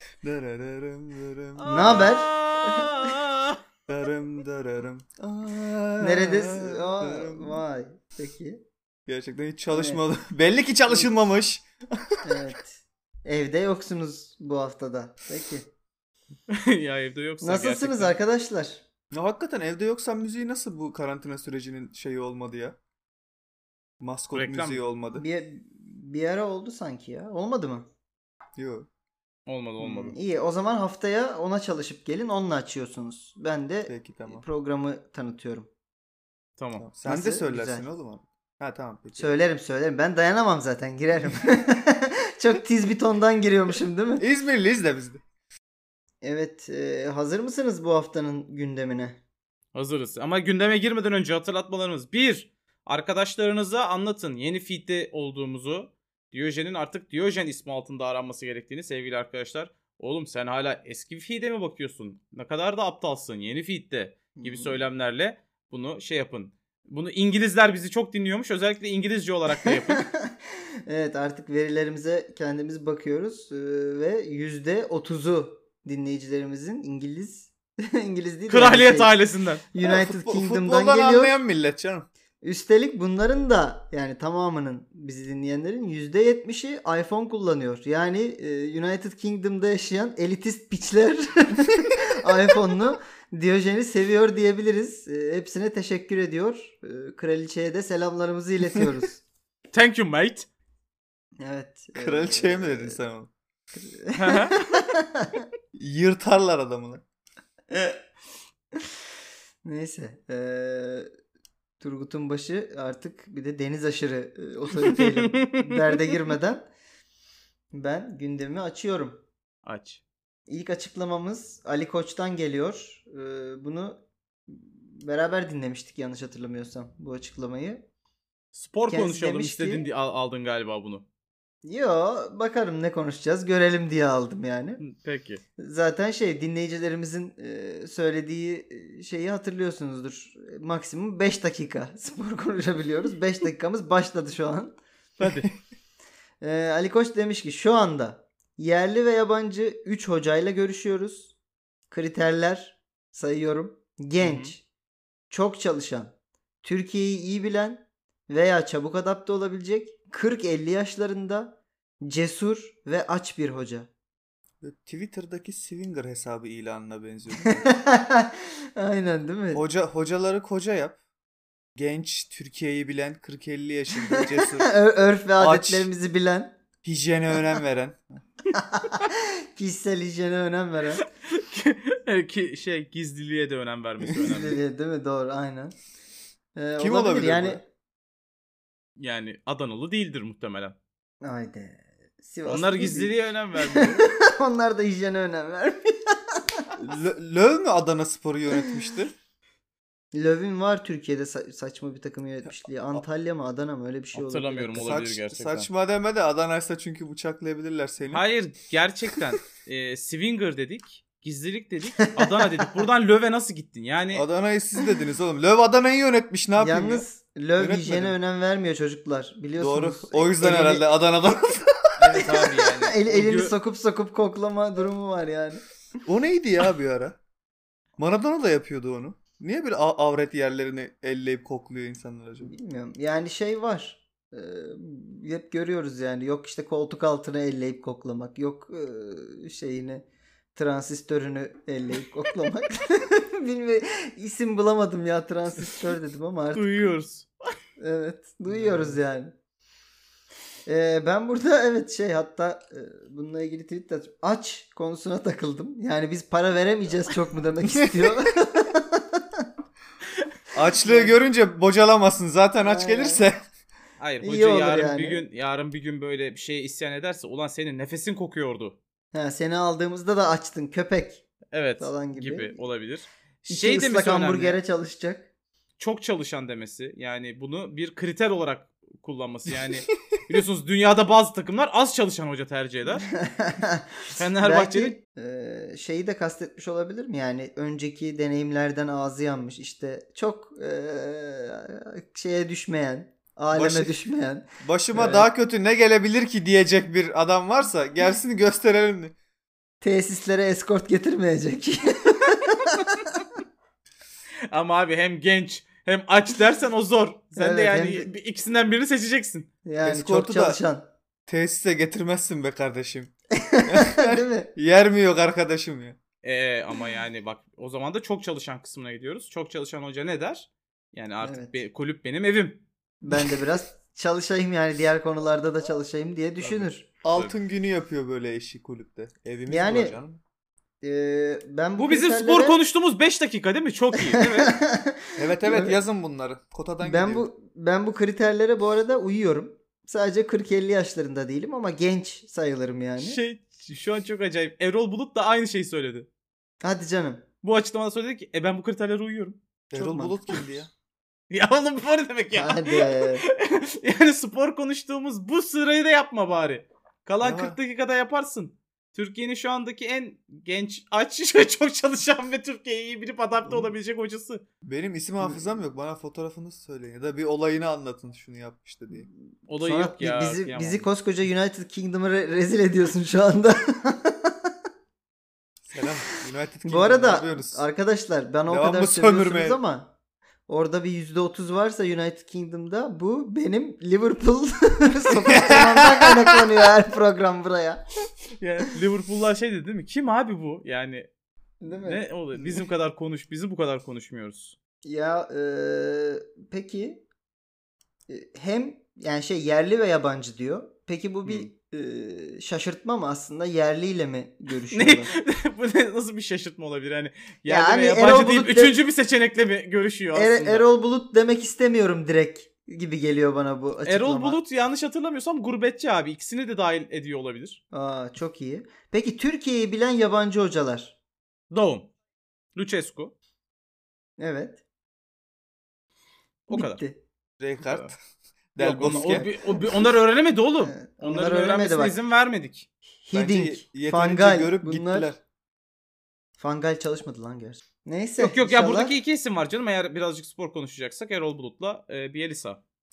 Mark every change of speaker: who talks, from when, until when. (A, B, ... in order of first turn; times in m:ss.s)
0:00.2-0:02.1 A
0:01.6-0:03.6 B
0:01.7-0:03.1 C
0:03.9-0:07.6 A
0:06.0-0:08.6 C
0:09.1-0:12.2 A
0:09.7-0:10.0 C
0:12.2-0:15.7 C
0:16.5-0:18.1 B
0:17.4-0:18.8 C
0:19.1-0:22.8 A
0:24.0-0:25.2 A
0:24.3-0:24.8 B
0:25.2-0:27.9 C
0:28.6-0:28.9 A
0:29.5-0:30.2 B
0:29.8-0:35.7 C
0:33.9-0:34.4 A
0:36.6-0:36.8 B
0:36.8-0:39.4 A
0:37.1-0:37.8 C
0:39.2-0:44.2 C
0:44.2-0:45.2 A
0:46.2-0:49.2 C
0:49.7-1:10.1 B
1:04.4-1:04.8 C
1:09.6-1:19.2 C
1:18.5-1:19.6 B
1:19.7-1:21.4 C
1:19.8-1:22.1 A
1:22.4-1:39.2 C
1:39.7-1:40.5 B
1:41.4-1:43.0 C
1:42.0-1:43.3 A
1:43.8-1:45.4 C
1:44.2-1:44.8 B
1:45.8-1:47.0 A
1:49.6-1:51.1 C
1:51.8-1:56.7 C
1:55.0-1:55.8 B
1:57.7-1:59.2 C
1:59.6-2:00.0 B
2:00.5-2:07.8 C
2:08.5-2:11.0 B
2:08.9-2:09.9 C
2:11.6-2:14.8 C
2:14.8-2:15.4 B
2:15.6-2:24.8 C
2:25.2-2:25.5 B
2:25.2-2:25.5 A
2:26.4-2:31.4 C
2:31.9-2:34.6 C
2:34.2-2:34.5 B
2:35.3-2:43.9 C
2:44.6-2:47.7 A
2:47.4-2:49.6 C
2:49.5-2:51.0 A
2:51.8-2:54.7 A
2:54.1-2:56.6 C
2:55.4-2:55.9 A
2:56.8-2:58.0 A
2:58.5-3:01.0 C
3:01.3-3:04.6 B
3:04.1-3:05.8 C
3:06.6-3:07.6 C
3:06.8-3:07.6 A
3:09.0-3:10.8 B
3:11.2-3:16.7 C
3:12.5-3:14.1 B
3:16.8-3:19.1 A
3:20.1-3:25.0 C
3:24.1-3:25.7 B
3:24.8-3:28.2 A
3:28.1-3:34.2 B
3:32.0-3:32.9 C
3:34.1-3:37.0 A
3:36.6-3:40.9 C
3:37.6-3:38.2 A
3:39.6-3:42.4 A
3:42.0-3:43.5 B
3:42.2-3:45.6 C
3:46.0-3:47.2 A
3:48.0-3:52.5 A
3:52.5-4:06.9 C
4:06.6-4:07.3 B
4:07.8-4:09.4 C
4:08.5-4:09.0 A
4:10.7-4:19.5 C
4:20.5-4:23.4 A
4:20.9-4:21.1 C
4:22.6-4:23.2 C
4:24.0-4:28.8 B
4:24.2-4:25.2 C
4:29.1-4:31.2 C
4:31.5-4:34.6 B
4:31.8-4:32.6 C
4:33.5-4:35.3 C
4:35.8-4:43.1 B
4:43.0-4:55.3 C
4:44.1-4:45.0 B
4:53.5-4:53.9 A
4:54.6-4:59.2 A
4:59.8-5:03.0 C
5:04.5-5:09.5 B
5:07.4-5:08.1 C
5:09.6-5:10.9 C
5:09.8-5:10.6 A
5:11.3-5:16.0 A
5:13.3-5:14.5 C
5:16.2-5:22.6 B
5:21.2-5:21.5 C
5:23.0-5:26.8 C
5:26.4-5:27.3 B
5:27.0-5:30.2 A
5:29.5-5:30.0 C
5:30.8-5:32.6 C
5:31.8-5:34.5 B
5:34.1-5:35.8 C
5:35.2-5:37.3 A
5:36.8-5:43.2 C
5:43.0-5:46.1 B
5:46.6-5:47.2 C
5:47.4-5:49.4 B
5:49.7-5:50.7 A
5:49.7-5:50.2 C
5:51.3-6:04.4 B
5:52.3-5:53.2 C
5:57.2-5:57.6 A
6:04.6-6:09.1 A
6:09.5-6:10.8 B
6:09.6-6:14.5 C
6:15.7-6:17.6 A
6:16.6-6:19.9 C
6:18.5-6:19.6 A
6:20.5-6:27.8 C
6:25.2-6:26.3 A
6:28.4-6:31.1 B
6:31.6-6:32.6 C
6:31.7-6:34.6 B
6:34.8-6:37.0 C
6:38.1-6:45.1 C
6:44.7-6:50.6 B
6:47.5-6:48.8 C
6:50.1-6:54.4 C
6:53.9-6:57.6 B
6:57.7-7:01.0 C
7:01.5-7:01.9 B
7:02.6-7:03.1 B
7:04.2-7:04.6 C
7:06.5-7:06.8 B
7:06.5-7:07.0 C
7:07.4-7:08.0 A
7:08.6-7:09.3 A
7:08.6-7:12.7 B
7:08.8-7:09.9 C
7:10.6-7:12.0 C
7:13.0-7:15.1 C
7:13.1-7:15.2 A
7:16.4-7:19.0 C
7:18.2-7:22.6 B